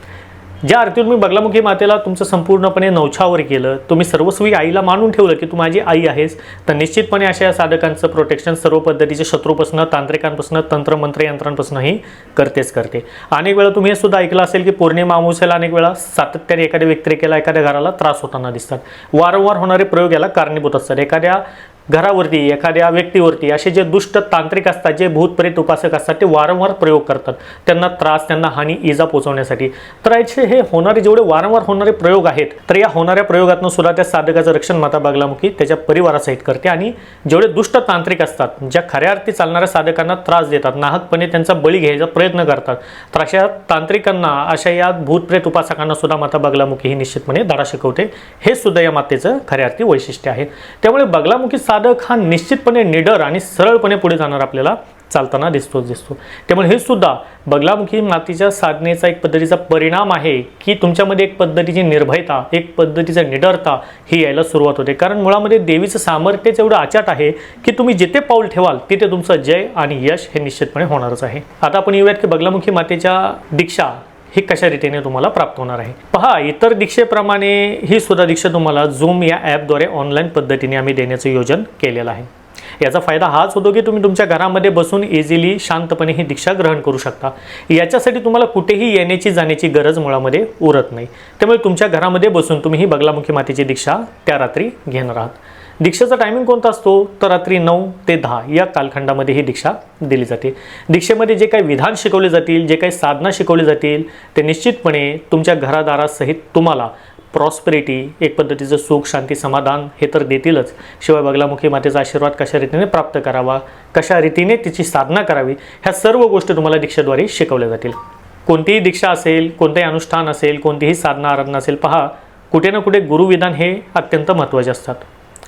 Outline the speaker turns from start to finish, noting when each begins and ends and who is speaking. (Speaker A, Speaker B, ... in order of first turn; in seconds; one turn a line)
Speaker A: 0.6-125.1